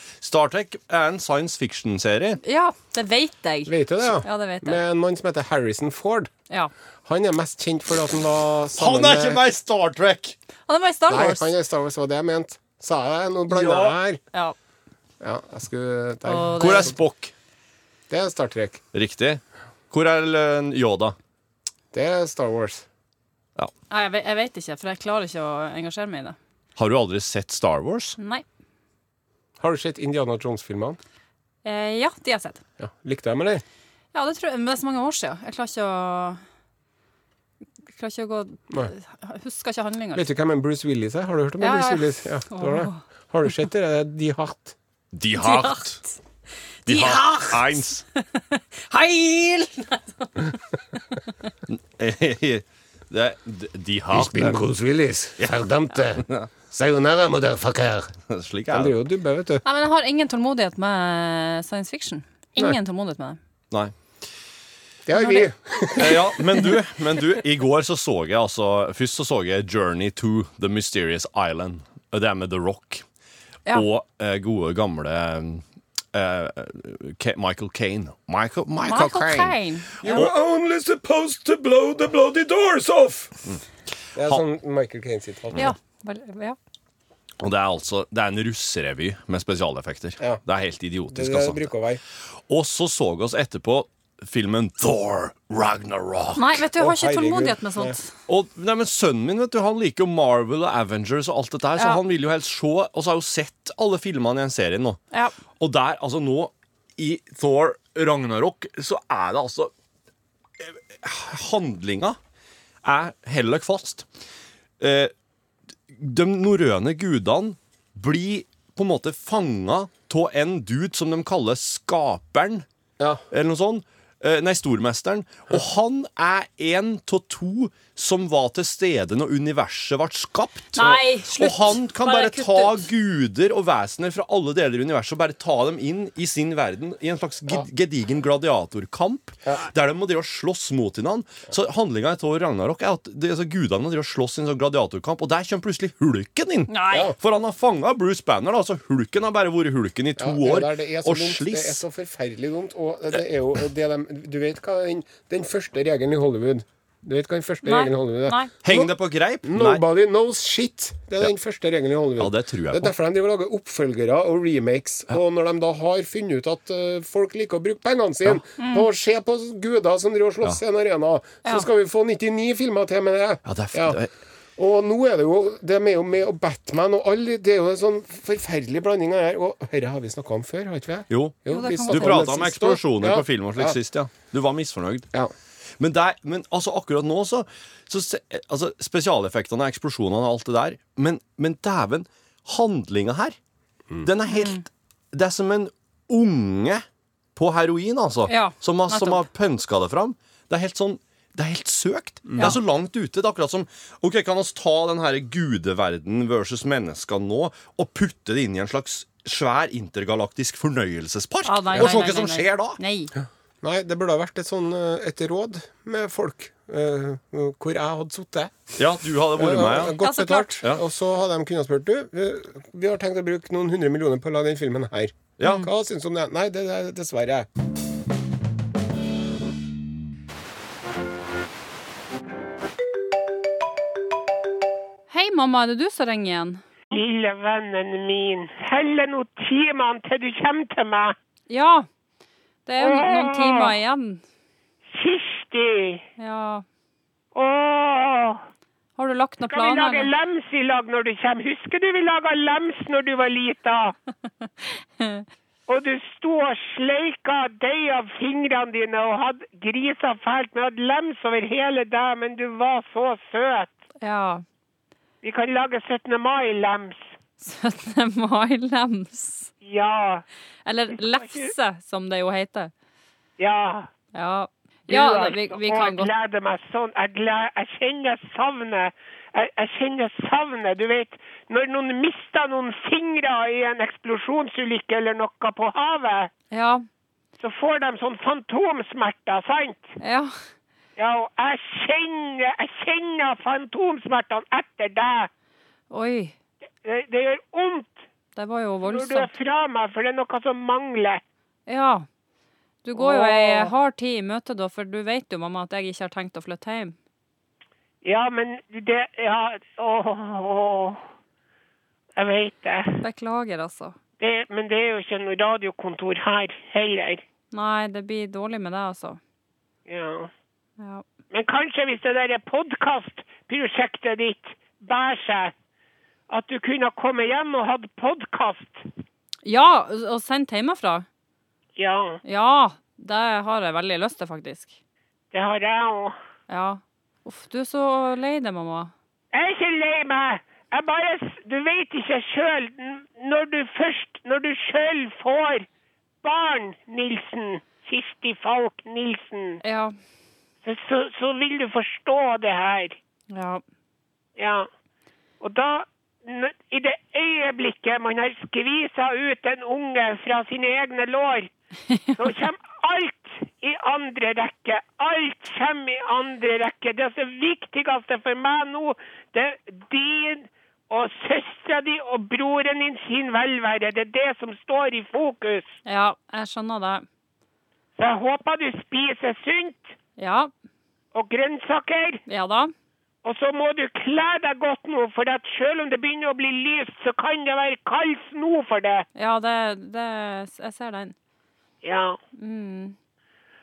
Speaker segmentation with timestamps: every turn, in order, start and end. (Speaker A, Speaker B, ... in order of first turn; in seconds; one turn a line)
Speaker A: 0.2-2.4
Speaker B: 2.4-4.8
Speaker C: 3.6-6.3
Speaker C: 7.0-9.4
Speaker A: 8.8-10.3
Speaker B: 10.7-11.5
Speaker C: 11.1-14.2
Speaker A: 13.6-13.9
Speaker C: 15.2-16.9
Speaker B: 16.2-16.9
Speaker A: 16.6-17.3
Speaker C: 18.1-18.8
Speaker A: 18.9-21.1
Speaker C: 21.9-22.8
Speaker B: 23.9-26.4
Speaker A: 26.8-28.2
Speaker B: 28.2-28.4
Speaker C: 29.6-31.0
Speaker B: 31.6-32.6
Speaker C: 32.8-33.6
Speaker B: 34.1-36.4
Speaker B: 37.9-40.2
Speaker C: 40.1-44.8
Speaker B: 41.6-43.0
Speaker A: 45.1-46.0
Speaker B: 45.4-46.2
Speaker B: 46.8-50.7
Speaker A: 46.9-48.0
Speaker A: 51.7-54.6
Speaker C: 54.1-56.2
Speaker A: 55.4-56.5
Speaker C: 56.7-58.0
Speaker A: 58.3-59.0
Speaker C: 58.7-59.6
Speaker B: 59.6-63.4
Speaker C: 65.0-66.4
Speaker B: 65.2-65.5
Speaker A: 66.0-73.0
Speaker A: 73.7-80.3
Speaker B: 78.8-80.2
Speaker C: 80.0-83.4
Speaker C: 84.2-85.7
Speaker B: 85.5-86.6
Speaker A: 87.4-91.7
Speaker C: 91.1-92.0
Speaker A: 92.5-96.4
Speaker B: 96.4-98.1
Speaker C: 96.8-97.9
Speaker A: 98.3-105.0
Speaker B: 101.8-102.0
Speaker A: 105.6-109.7
Speaker A: 110.6-112.2
Speaker A: 112.8-114.0
Speaker A: 114.8-115.1
Speaker A: 115.9-122.6
Speaker A: 123.3-151.8
Speaker B: 130.8-132.9
Speaker B: 146.7-147.1
Speaker C: 146.9-147.1
Speaker C: 150.2-158.9
Speaker B: 157.6-158.5
Speaker A: 158.6-159.8
Speaker C: 159.4-174.0
Speaker A: 162.2-162.9
Speaker B: 168.6-168.9
Speaker A: 173.4-174.1
Speaker C: 174.6-183.8
Speaker A: 181.1-185.1
Speaker B: 181.5-182.3
Speaker A: 185.8-193.4
Speaker A: 194.0-196.8
Speaker B: 194.3-194.6
Speaker A: 197.4-212.8
Speaker B: 198.3-199.2
Speaker B: 211.4-213.1
Speaker C: 213.2-218.6
Speaker A: 218.8-220.0
Speaker C: 219.4-227.5
Speaker B: 220.0-220.6
Speaker B: 235.1-236.6
Speaker D: 236.9-241.1
Speaker B: 241.5-241.9
Speaker B: 242.7-244.2
Speaker D: 242.8-243.8
Speaker D: 244.9-246.1
Speaker B: 246.2-246.6
Speaker D: 247.3-248.4
Speaker B: 249.0-250.1
Speaker D: 249.5-253.9
Speaker B: 255.0-255.2
Speaker D: 255.7-263.8
Speaker B: 264.0-264.4
Speaker D: 265.2-267.1
Speaker B: 267.4-269.5
Speaker D: 269.6-270.2
Speaker B: 270.6-272.7
Speaker D: 270.9-271.5
Speaker D: 273.4-273.9
Speaker B: 274.1-276.1
Speaker D: 274.9-286.3
Speaker B: 286.5-286.9
Speaker D: 287.4-289.9
Speaker B: 290.0-290.4
Speaker D: 291.0-295.3
Speaker B: 295.9-296.4
Speaker D: 296.8-298.0
Speaker B: 298.4-299.3
Speaker D: 298.8-301.2
Speaker B: 301.7-302.1
Speaker B: 302.8-306.9
Speaker D: 302.9-303.7
Speaker D: 308.0-311.0
Speaker D: 312.1-312.9
Speaker B: 313.0-314.0
Speaker D: 314.2-317.2
Speaker B: 317.5-319.2
Speaker D: 319.9-320.3
Speaker B: 320.8-321.1
Speaker D: 321.3-325.5
Speaker D: 326.3-328.9
Speaker B: 329.4-331.1
Speaker D: 331.8-332.2
Speaker B: 332.2-334.8
Speaker D: 335.3-336.1
Speaker B: 336.5-338.9
Speaker D: 339.3-345.7
Speaker D: 346.2-349.6
Speaker B: 349.6-349.9
Speaker D: 350.6-353.0
Speaker B: 353.3-353.6
Speaker D: 354.4-354.7
Speaker D: 355.4-361.5
Speaker D: 362.1-375.8
Speaker B: 375.9-377.1
Speaker D: 378.0-379.9
Speaker B: 380.2-380.5
Speaker D: 381.1-382.2
Speaker B: 382.3-382.7
Speaker D: 383.2-389.1
Speaker B: 389.1-391.1
Speaker D: 391.8-392.2
Speaker B: 392.4-392.9